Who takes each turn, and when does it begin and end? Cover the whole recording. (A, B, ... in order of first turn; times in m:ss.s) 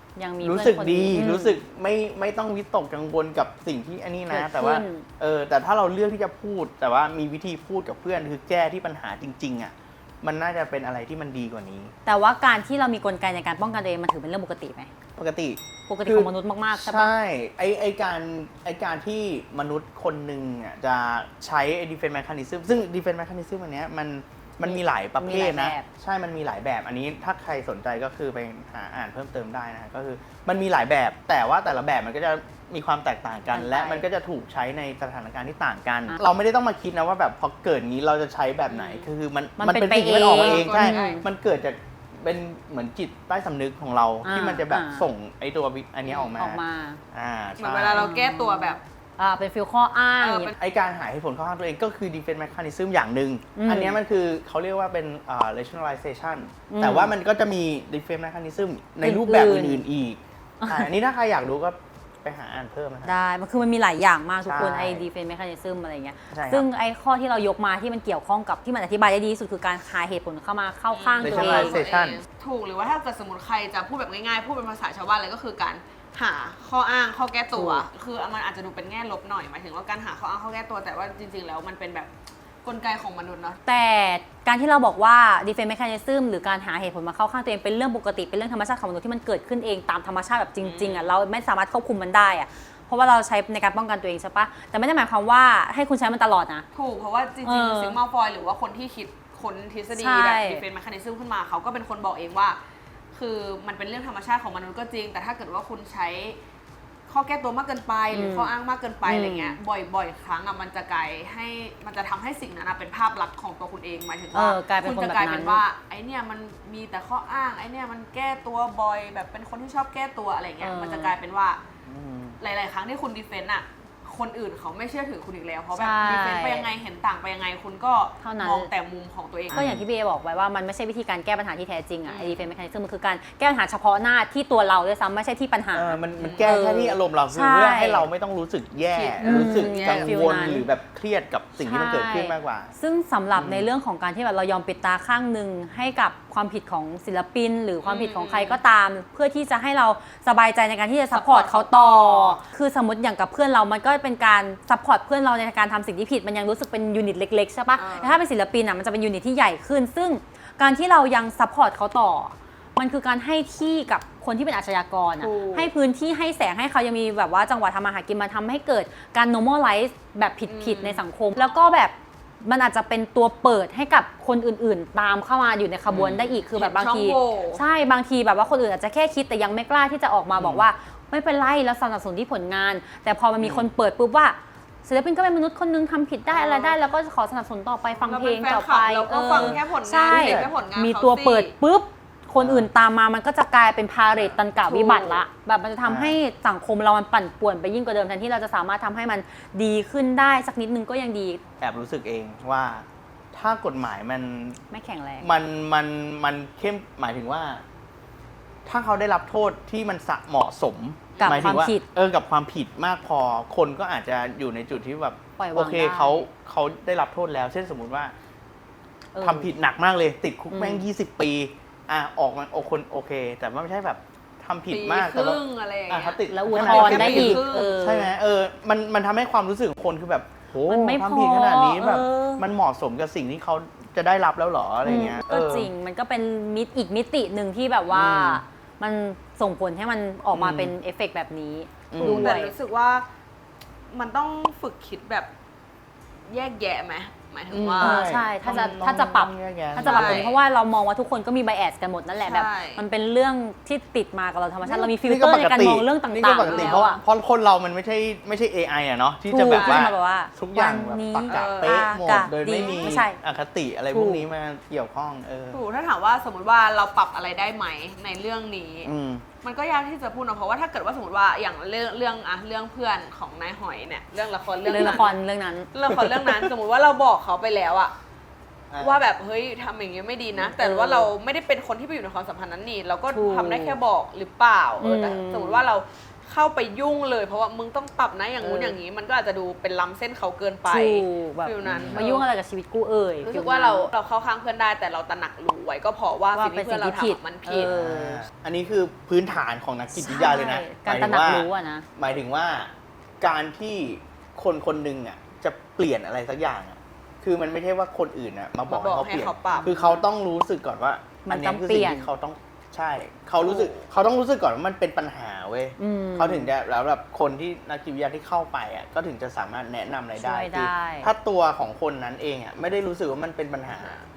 0:00.2-0:01.6 A
0:00.4-0:11.9 B
0:04.3-0:05.0 A
0:12.0-0:14.9 A
0:15.2-0:46.6 B
0:15.9-0:17.1 A
0:24.6-0:25.8 A
0:33.5-0:34.1 A
0:38.7-0:39.1 C
0:39.6-0:41.2 A
0:40.3-0:41.2 C
0:44.2-0:45.1 A
0:46.0-0:46.3 C
0:46.3-0:47.0 A
0:47.1-0:48.1 B
0:47.6-0:48.8 C
0:47.9-0:50.5 A
0:50.2-0:50.5 C
0:50.5-1:03.2 B
0:53.5-0:54.0 A
0:56.7-0:57.1 A
0:59.0-0:59.8 A
1:00.6-1:00.9 A
1:03.0-1:11.8 A
1:04.4-1:05.1 B
1:06.3-1:06.7 B
1:10.9-1:22.1 C
1:11.2-1:12.2 B
1:17.5-1:17.8 A
1:22.6-1:23.6 C
1:23.6-1:36.6 A
1:30.6-1:31.1 C
1:36.7-1:42.6 C
1:37.4-1:38.0 A
1:39.9-1:40.6 A
1:43.1-1:46.4 C
1:47.1-2:01.6 C
1:48.1-1:48.5 A
1:49.0-1:49.6 A
1:54.3-1:55.6 A
2:00.6-2:01.1 A
2:01.8-2:02.4 B
2:02.4-2:09.6 C
2:05.7-2:06.7 A
2:08.2-2:08.7 A
2:09.5-2:18.1 A
2:09.5-2:09.8 B
2:12.0-2:12.5 C
2:15.7-2:22.7 B
2:16.2-2:16.5 C
2:18.9-2:20.2 C
2:19.2-2:20.7 A
2:21.6-3:21.4 A
2:23.3-2:23.7 B
2:27.8-2:28.6 C
2:31.1-2:32.4 C
2:37.7-2:38.2 C
2:45.2-2:45.7 C
2:50.4-2:51.0 C
2:55.9-2:56.2 B
2:56.2-2:57.6 C
3:00.4-3:00.7 B
3:03.4-3:03.7 B
3:06.3-3:06.8 C
3:08.0-3:11.5 C
3:09.3-3:10.5 B
3:12.4-3:12.7 B
3:14.1-3:14.4 B
3:14.6-3:15.2 C
3:15.8-3:16.2 B
3:21.6-3:24.6 B
3:24.7-3:25.3 A
3:25.2-3:27.6 B
3:28.6-3:38.1 B
3:31.1-3:31.6 C
3:31.2-3:31.8 A
3:35.4-3:36.2 A
3:39.1-3:39.5 A
3:39.2-3:55.7 B
3:40.5-3:40.9 A
3:44.7-3:47.8 C
3:46.3-3:48.1 A
3:50.6-3:52.4 A
3:54.8-4:02.5 A
3:57.9-3:58.4 B
4:00.3-4:00.7 B
4:01.9-4:02.3 B
4:02.0-4:03.0 C
4:03.9-4:05.3 C
4:06.3-4:08.0 C
4:07.5-4:10.2 B
4:07.8-4:17.0 A
4:09.8-4:10.4 C
4:12.2-4:12.8 C
4:14.6-4:25.6 B
4:16.4-4:16.9 C
4:19.3-4:23.2 A
4:19.5-4:19.9 C
4:21.3-4:21.8 C
4:22.5-4:23.0 C
4:23.9-4:24.3 A
4:25.5-4:28.9 C
4:28.8-4:29.2 B
4:29.4-4:35.2 C
4:34.6-4:35.7 A
4:35.7-4:37.9 C
4:35.9-4:36.5 B
4:38.7-4:39.0 B
4:38.8-4:52.3 C
4:40.4-4:41.1 A
4:43.1-4:43.8 A
4:44.8-4:45.6 A
4:48.4-4:48.8 A
4:50.7-4:53.9 A
4:51.6-4:52.0 B
4:53.2-4:57.8 C
4:56.3-4:58.2 A
4:57.6-5:24.0 B
4:59.9-5:01.8 A
5:08.7-5:09.7 C
5:09.5-5:10.0 A
5:11.2-5:12.1 A
5:13.4-5:13.9 C
5:15.8-5:16.5 A
5:20.2-5:21.1 A
5:23.7-5:24.1 C